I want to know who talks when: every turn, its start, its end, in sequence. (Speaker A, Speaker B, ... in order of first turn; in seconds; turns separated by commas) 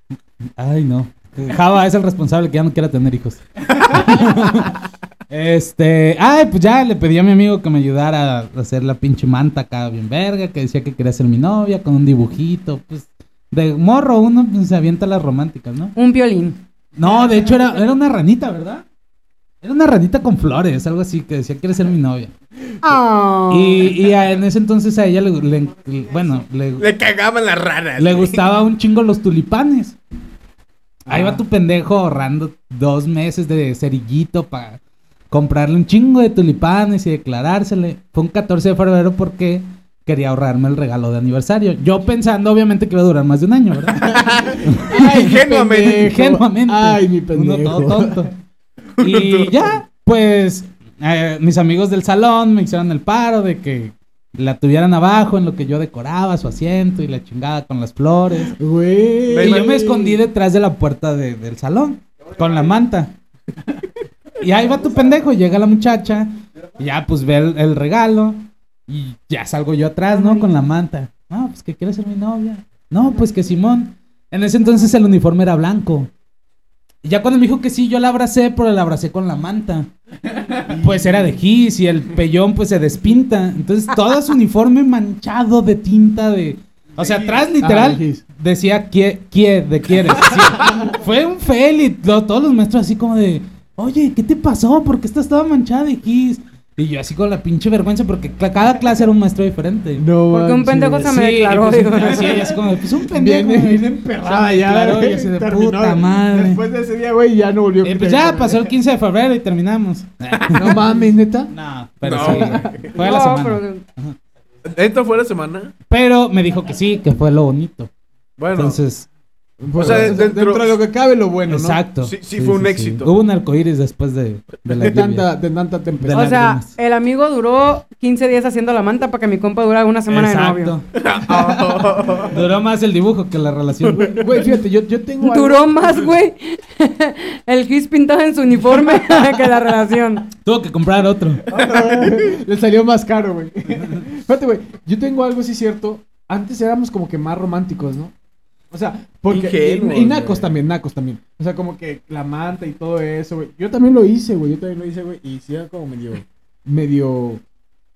Speaker A: 0.6-15.9, Speaker B: 16.0-16.6, Speaker A: 17.0-18.8, Speaker A: 19.6-22.3, Speaker B: 22.8-23.9, Speaker A: 23.5-26.9, Speaker C: 26.8-28.4, Speaker A: 28.0-30.0, Speaker D: 31.1-31.4, Speaker A: 31.1-48.3, Speaker D: 44.0-48.3, Speaker C: 44.1-46.1, Speaker C: 49.0-49.8, Speaker A: 49.0-58.6, Speaker D: 58.6-60.2, Speaker C: 59.3-60.0, Speaker A: 59.4-63.1, Speaker A: 64.4-76.1, Speaker B: 70.1-70.5, Speaker A: 77.0-79.9, Speaker A: 80.7-100.1, Speaker D: 80.7-81.0, Speaker D: 87.6-88.2, Speaker D: 100.0-101.2, Speaker B: 100.3-102.5, Speaker A: 101.0-106.6, Speaker D: 103.1-108.7, Speaker A: 107.8-110.9, Speaker C: 110.4-110.7, Speaker D: 110.5-111.5, Speaker A: 111.5-114.2, Speaker C: 112.0-113.0, Speaker D: 112.1-112.9, Speaker B: 113.0-113.8, Speaker C: 114.6-115.7, Speaker A: 115.9-117.9, Speaker C: 118.4-118.8, Speaker A: 118.6-119.1, Speaker D: 119.6-121.8, Speaker C: 119.8-120.8, Speaker A: 121.5-125.3, Speaker C: 122.0-123.1, Speaker D: 124.8-126.3, Speaker A: 126.0-126.7, Speaker B: 126.1-130.8, Speaker A: 130.1-134.2, Speaker C: 131.0-132.4, Speaker C: 133.8-134.5, Speaker D: 134.0-135.7, Speaker B: 135.2-140.3, Speaker A: 140.4-141.4, Speaker C: 141.5-142.4, Speaker D: 141.5-148.1, Speaker D: 148.7-157.4, Speaker C: 149.3-150.6